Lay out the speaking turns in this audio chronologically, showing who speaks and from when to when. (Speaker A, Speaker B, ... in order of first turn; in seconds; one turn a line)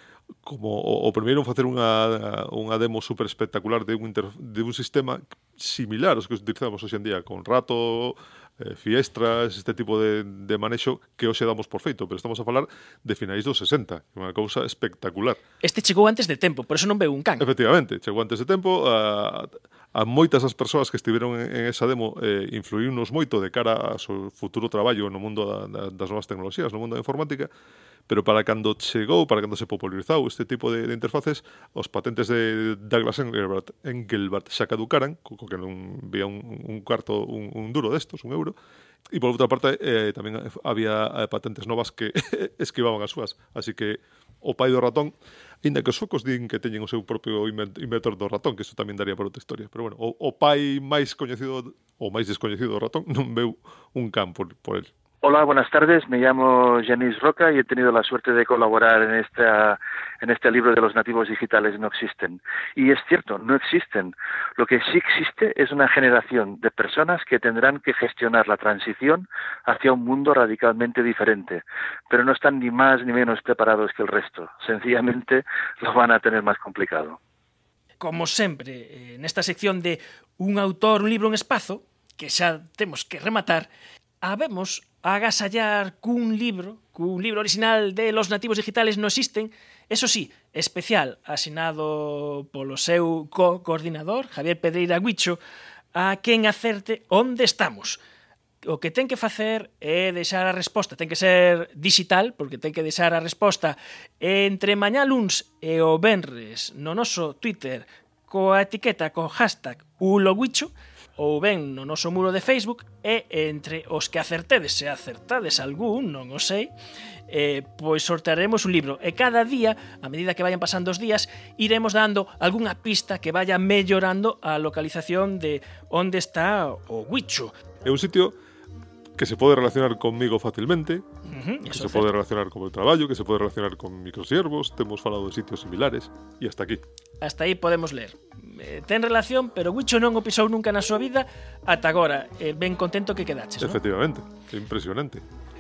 Speaker A: 0.4-15.4
Speaker B: 15.6-17.5
Speaker A: 17.4-27.5
Speaker A: 28.1-38.5
Speaker A: 39.1-54.9
Speaker C: 55.2-77.2
Speaker B: 78.0-83.7
Speaker B: 84.2-95.4
Speaker B: 96.0-98.0
Speaker B: 98.6-116.7
Speaker B: 117.3-127.5
Speaker A: 127.8-128.3
Speaker A: 129.2-131.1
Speaker B: 131.3-132.1
Speaker A: 131.7-136.8
Speaker B: 137.2-143.8
Speaker A: 143.6-145.2